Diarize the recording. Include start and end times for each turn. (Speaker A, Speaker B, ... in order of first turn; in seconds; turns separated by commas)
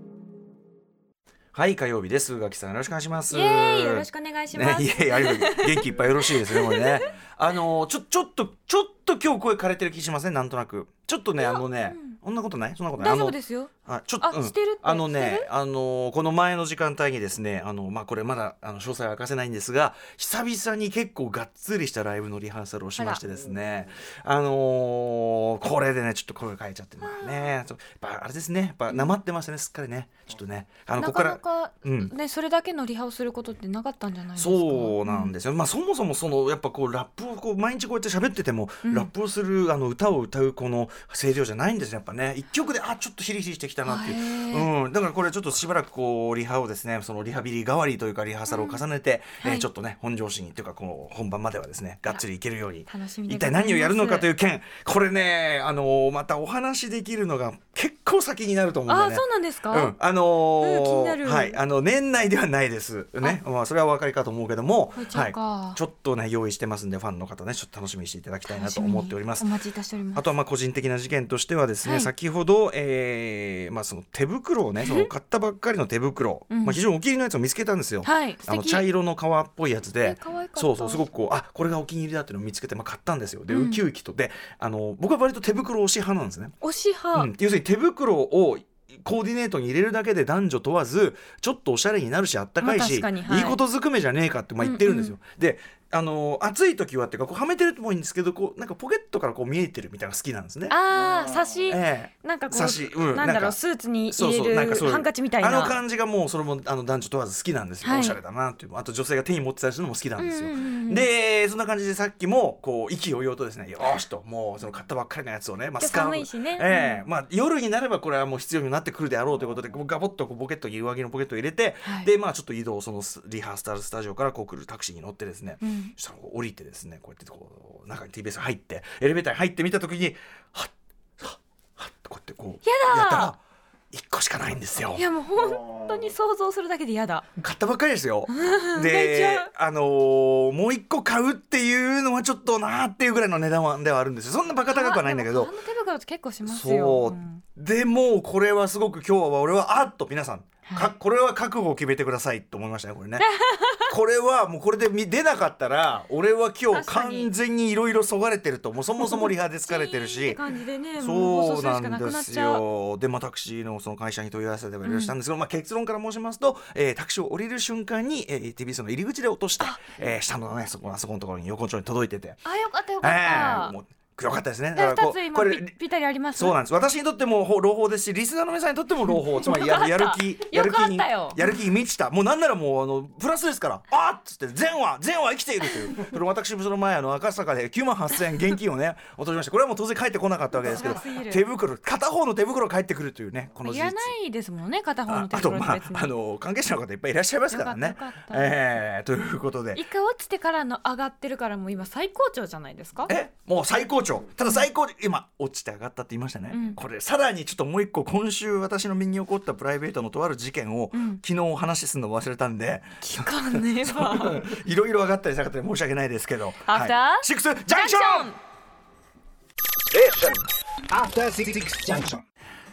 Speaker A: 1.5-32.1, Speaker B: 3.3-7.1, Speaker B: 11.4-12.2, Speaker B: 13.0-15.5, Speaker B: 23.0-23.2, Speaker B: 27.0-27.4, Speaker B: 31.0-35.4, Speaker A: 34.4-69.5, Speaker B: 38.8-39.1, Speaker B: 43.9-44.7, Speaker B: 48.5-48.8, Speaker B: 49.4-49.7, Speaker B: 52.9-54.3, Speaker B: 58.9-60.0, Speaker B: 60.6-61.6, Speaker B: 65.0-65.8, Speaker B: 68.5-70.2, Speaker A: 70.2-86.5, Speaker B: 71.8-72.1, Speaker B: 74.8-75.1, Speaker B: 76.5-76.8, Speaker B: 78.0-78.8, Speaker B: 80.0-81.1, Speaker B: 83.5-83.8, Speaker B: 86.6-87.3, Speaker A: 87.1-100.8, Speaker B: 92.6-93.6, Speaker B: 94.6-95.2, Speaker B: 100.7-105.8, Speaker A: 101.7-133.4, Speaker B: 107.8-108.2, Speaker B: 110.2-111.1, Speaker B: 115.8-117.0, Speaker B: 121.8-122.1, Speaker B: 125.6-125.9, Speaker B: 132.6-133.3, Speaker A: 133.9-135.1, Speaker B: 134.9-137.3, Speaker A: 137.4-145.5, Speaker B: 138.3-139.5, Speaker B: 144.7-147.4, Speaker A: 146.4-153.3, Speaker B: 150.7-150.9, Speaker B: 153.2-153.9, Speaker A: 153.9-160.5, Speaker B: 156.7-157.3, Speaker B: 159.0-162.7, Speaker A: 161.0-172.5, Speaker B: 164.8-165.2, Speaker B: 169.6-170.0, Speaker B: 172.4-173.8, Speaker A: 173.0-175.8, Speaker B: 174.7-176.6, Speaker A: 176.3-194.1, Speaker B: 179.3-181.6, Speaker B: 190.6-191.4, Speaker B: 193.6-196.1, Speaker A: 195.1-199.8, Speaker B: 197.5-198.6, Speaker B: 199.7-203.1, Speaker A: 203.1-218.3, Speaker B: 206.5-206.8, Speaker B: 210.9-211.2, Speaker B: 213.0-214.5, Speaker B: 216.6-218.4, Speaker C: 219.9-222.2